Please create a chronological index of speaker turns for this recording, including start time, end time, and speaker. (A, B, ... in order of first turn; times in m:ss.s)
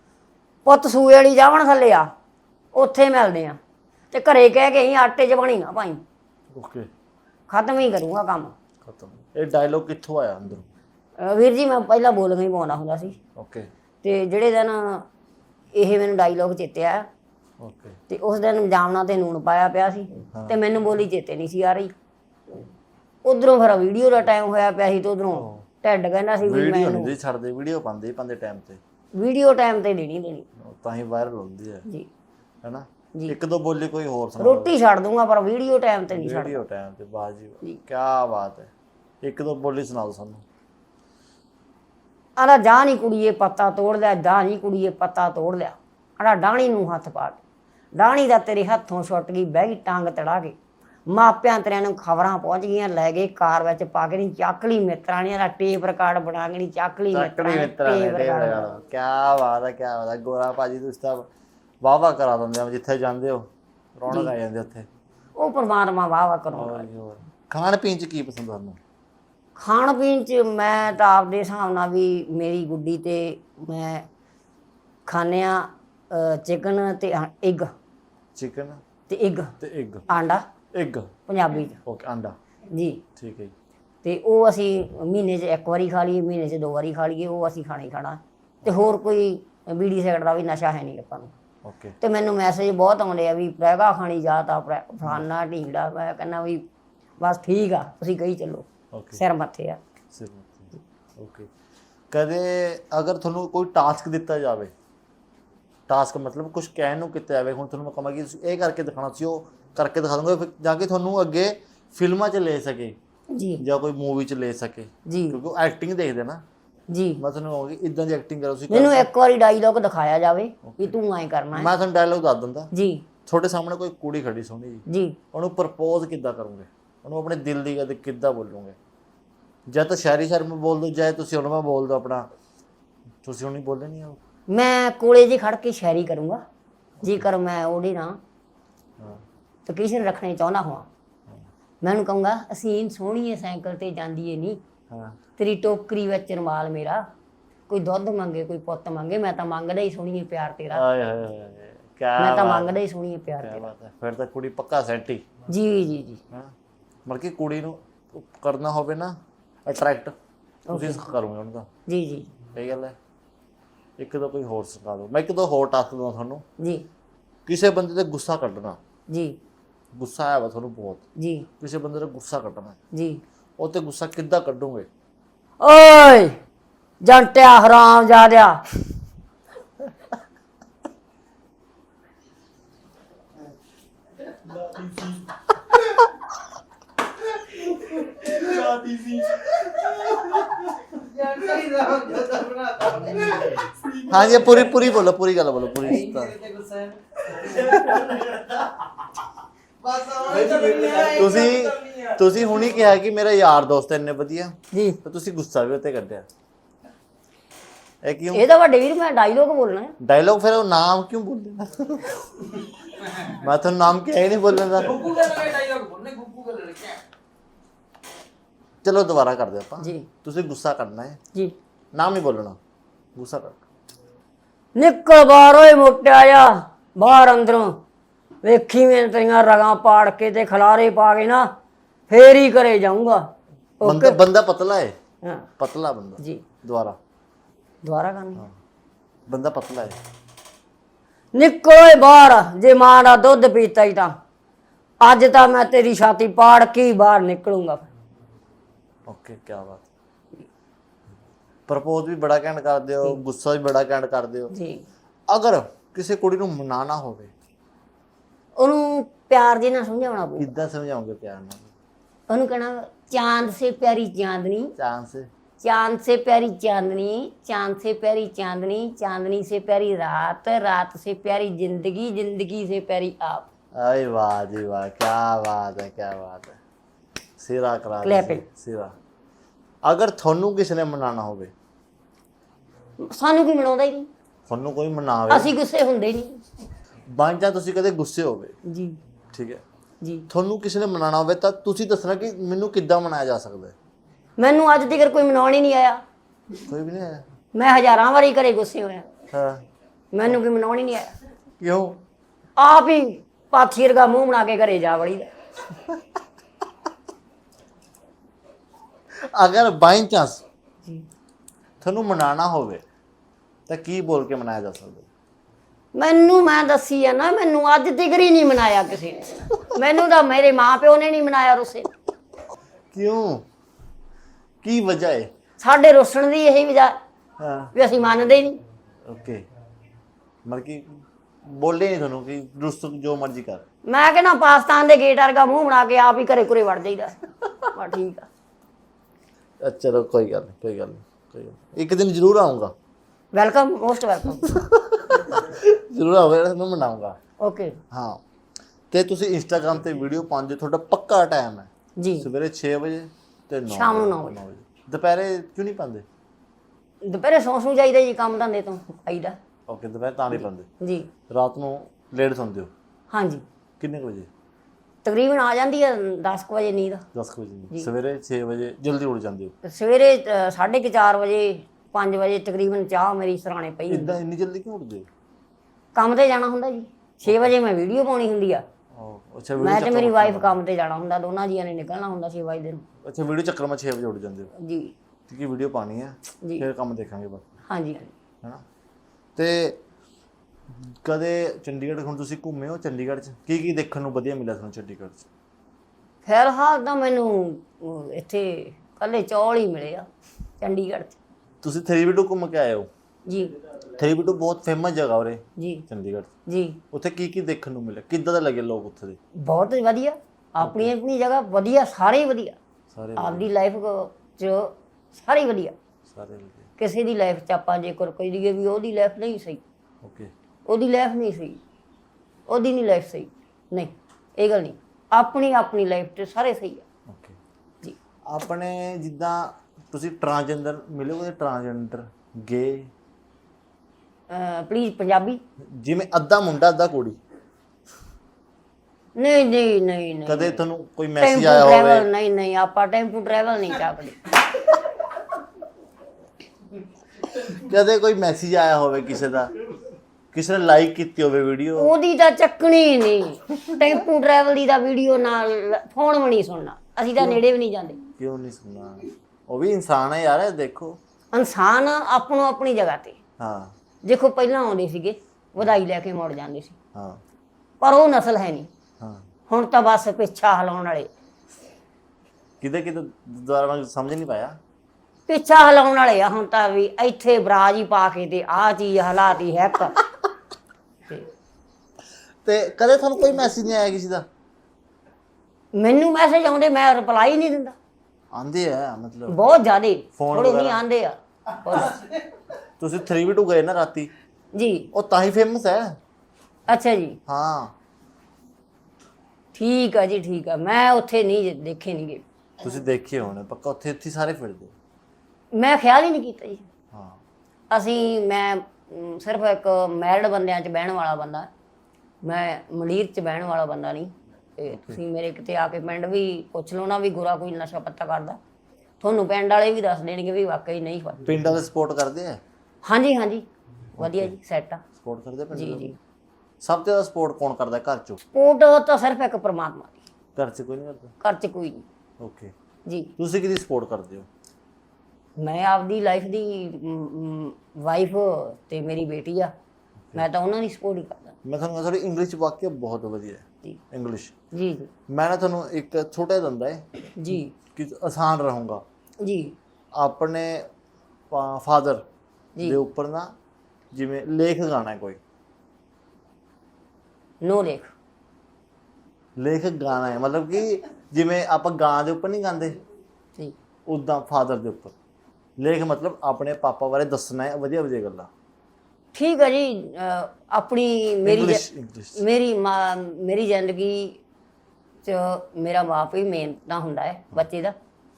0:00.6-0:02.1 A
0:02.7-0:03.6 A
0:04.1-0:06.0 A
0:06.5-0:06.9 B
0:07.5-0:08.5 A
0:08.8-0:10.7 B
0:11.2-0:13.2 A
0:13.4-0:13.7 B
0:14.0-0:15.0 A
0:15.7-0:17.1 A
0:17.6-0:18.0 B
0:18.1-0:21.9 A
0:23.2-0:27.1 A
0:25.3-0:25.6 B
0:26.4-0:28.8 B
0:29.1-0:30.5 A
0:30.6-0:31.8 B
0:32.6-0:34.7 B
0:34.4-0:36.6 A
0:36.1-0:38.7 B
0:39.2-0:40.4 B
0:42.4-0:47.4 A
0:47.9-0:58.7 A
0:57.1-1:01.3 B
1:01.8-1:04.9 B
1:04.1-1:04.3 A
1:05.4-1:06.9 A
1:06.5-1:08.8 B
1:09.6-1:14.1 A
1:15.0-1:17.7 A
1:18.4-1:18.8 B
1:19.1-1:19.6 A
1:19.6-1:20.0 B
1:20.1-1:20.4 A
1:20.7-1:21.1 B
1:21.3-1:21.8 A
1:21.8-1:22.4 B
1:22.7-1:23.0 A
1:23.2-1:23.5 B
1:24.0-1:31.3 A
1:31.6-1:32.0 B
1:32.0-1:36.6 A
1:37.2-1:39.8 A
1:38.9-1:39.2 B
1:40.1-1:41.5 B
1:42.1-1:44.7 B
1:45.9-1:53.0 B
1:53.3-1:53.6 A
1:53.6-1:56.4 B
1:55.1-1:55.4 A
1:56.9-1:57.2 A
1:57.2-1:59.1 B
1:58.7-2:01.7 A
2:00.6-2:00.9 B
2:01.5-2:02.7 B
2:02.7-2:03.1 A
2:03.2-2:08.8 B
2:04.9-2:05.2 A
2:09.7-2:12.3 B
2:13.2-2:14.2 B
2:14.5-2:16.4 A
2:17.0-2:17.3 B
2:17.0-2:18.2 A
2:19.7-2:20.9 A
2:21.8-2:24.6 A
2:24.9-2:25.2 B
2:25.4-2:27.0 A
2:27.7-2:30.8 A
2:30.7-2:32.8 B
2:32.2-2:33.7 A
2:33.4-2:35.3 B
2:35.5-2:36.2 A
2:37.0-2:40.1 B
2:40.7-2:41.0 A
2:40.7-2:41.7 B
2:41.9-2:42.3 A
2:42.5-2:43.0 B
2:44.0-2:46.4 B
2:46.6-2:46.8 A
2:47.4-2:48.8 B
2:49.1-2:49.4 A
2:49.9-2:51.0 B
2:51.2-2:51.5 A
2:51.6-2:52.8 B
2:52.9-2:53.2 A
2:53.6-2:54.9 B
2:55.6-2:56.4 A
2:57.0-2:58.6 A
3:11.2-3:13.1 C
3:14.0-3:16.4 B
3:16.5-3:17.0 C
3:17.3-3:18.1 B
3:20.0-3:26.2 B
3:20.0-3:20.8 C
3:24.7-3:25.0 A
3:28.0-3:28.4 B
3:28.3-3:30.0 A
3:30.0-3:35.5 B
3:35.3-3:37.0 C
3:38.8-3:41.2 B
3:39.8-3:40.1 A
3:41.9-3:42.6 B
3:43.2-3:43.6 B
3:44.7-3:47.8 A
3:48.4-3:51.5 A
3:52.1-3:54.2 A
3:53.8-3:54.9 B
3:55.2-3:55.5 A
3:55.6-3:57.0 B
3:56.2-3:56.4 A
3:57.8-3:58.4 A
3:59.3-4:00.0 B
4:01.3-4:04.2 A
4:05.0-4:07.9 A
4:09.1-4:09.9 B
4:11.7-4:14.5 B
4:14.5-4:14.8 A
4:15.3-4:17.3 B
4:18.6-4:20.5 A
4:20.4-4:21.7 B
4:22.3-4:24.7 A
4:24.8-4:25.3 B
4:25.6-4:33.5 A
4:33.7-4:36.6 B
4:37.4-4:39.0 B
4:38.0-4:38.4 A
4:39.8-4:41.5 B
4:43.0-4:44.1 A
4:44.5-4:45.5 B
4:45.3-4:46.4 A
4:47.1-4:48.6 B
4:48.6-4:49.0 A
4:49.3-4:49.6 B
4:50.0-4:50.3 A
4:50.3-4:53.7 B
4:54.4-4:56.0 A
4:56.6-4:57.2 B
4:57.5-4:59.1 A
4:59.3-4:59.6 B
5:00.1-5:01.1 A
5:01.6-5:02.0 B
5:02.6-5:05.3 A
5:09.1-5:10.4 B
5:11.8-5:12.8 B
5:13.7-5:15.1 B
5:15.9-5:21.9 A
5:22.9-5:23.4 B
5:24.6-5:25.3 B
5:25.6-5:27.0 A
5:27.4-5:27.7 B
5:27.7-5:28.6 A
5:29.0-5:29.4 B
5:30.4-5:33.6 B
5:33.8-5:38.3 A
5:39.6-5:42.7 B
5:43.3-5:44.6 A
5:44.4-5:47.2 B
5:47.4-5:47.8 A
5:47.9-5:48.2 B
5:48.9-5:56.0 B
5:52.0-5:52.3 A
5:53.7-5:54.4 A
5:57.0-5:59.4 A
5:59.7-6:00.7 B
6:00.3-6:01.1 A
6:01.3-6:02.7 B
6:03.1-6:03.4 A
6:03.8-6:04.3 B
6:05.0-6:07.0 A
6:07.1-6:09.5 B
6:09.6-6:14.2 A
6:13.9-6:15.1 B
6:15.9-6:18.6 A
6:17.2-6:17.5 B
6:18.9-6:20.6 B
6:19.6-6:22.8 A
6:23.0-6:24.5 B
6:24.6-6:24.9 A
6:25.3-6:27.4 B
6:27.7-6:28.1 A
6:29.4-6:29.8 B
6:30.7-6:35.3 B
6:36.2-6:40.1 A
6:40.6-6:41.2 A
6:41.6-6:42.9 B
6:43.2-6:43.5 A
6:43.9-6:46.3 B
6:45.6-6:45.8 A
6:46.4-6:46.8 A
6:46.9-6:49.2 B
6:49.4-6:52.6 A
6:50.6-6:50.9 B
6:52.9-6:53.5 B
6:53.2-6:55.8 A
6:56.1-6:56.7 B
6:56.8-6:59.6 A
7:00.0-7:00.3 B
7:00.6-7:01.6 A
7:02.5-7:06.8 A
7:07.1-7:07.4 B
7:08.2-7:12.9 B
7:14.3-7:15.4 A
7:15.6-7:17.2 B
7:19.1-7:20.6 A
7:20.2-7:22.0 B
7:21.2-7:24.2 A
7:27.4-7:29.6 B
7:30.3-7:31.9 B
7:31.8-7:38.0 A
7:38.2-7:41.0 B
7:41.3-7:43.2 A
7:43.4-7:43.7 B
7:44.0-7:46.8 A
7:46.9-7:47.2 B
7:47.8-7:48.7 A
7:49.5-7:51.1 A
7:52.6-7:54.6 B
7:55.3-8:00.0 A
8:02.4-8:04.2 B
8:05.7-8:07.8 A
8:08.3-8:09.4 B
8:09.3-8:12.1 A
8:10.2-8:10.8 B
8:12.8-8:14.1 B
8:14.5-8:14.9 A
8:14.9-8:16.0 B
8:16.7-8:17.2 A
8:17.3-8:17.7 B
8:19.5-8:22.2 A
8:22.6-8:24.7 B
8:25.5-8:26.6 A
8:26.9-8:27.2 B
8:27.7-8:31.5 A
8:32.2-8:38.4 A
8:34.7-8:35.0 B
8:39.0-8:41.2 A
8:41.2-8:42.4 B
8:42.8-8:43.4 A
8:44.0-8:44.4 B
8:44.0-8:44.8 A
8:45.0-8:45.9 B
8:45.5-8:46.0 A
8:46.6-8:48.2 B
8:48.3-8:50.0 A
8:50.4-8:51.1 B
8:51.2-8:51.8 A
8:52.2-8:52.5 B
8:52.8-8:53.1 A
8:53.2-8:54.3 B
8:55.4-8:59.5 A
9:00.1-9:01.3 A
9:01.4-9:04.3 B
9:04.5-9:04.9 A
9:05.1-9:06.9 B
9:07.1-9:07.5 A
9:07.7-9:08.8 B
9:09.2-9:09.6 A
9:10.0-9:10.7 B
9:11.3-9:12.0 B
9:12.6-9:13.3 B
9:13.9-9:15.2 B
9:17.4-9:17.9 A
9:19.4-9:22.8 B
9:23.9-9:24.9 B
9:25.6-9:28.3 B
9:29.1-9:31.6 A
9:31.2-9:32.2 B
9:32.1-9:34.2 A
9:35.0-9:37.7 A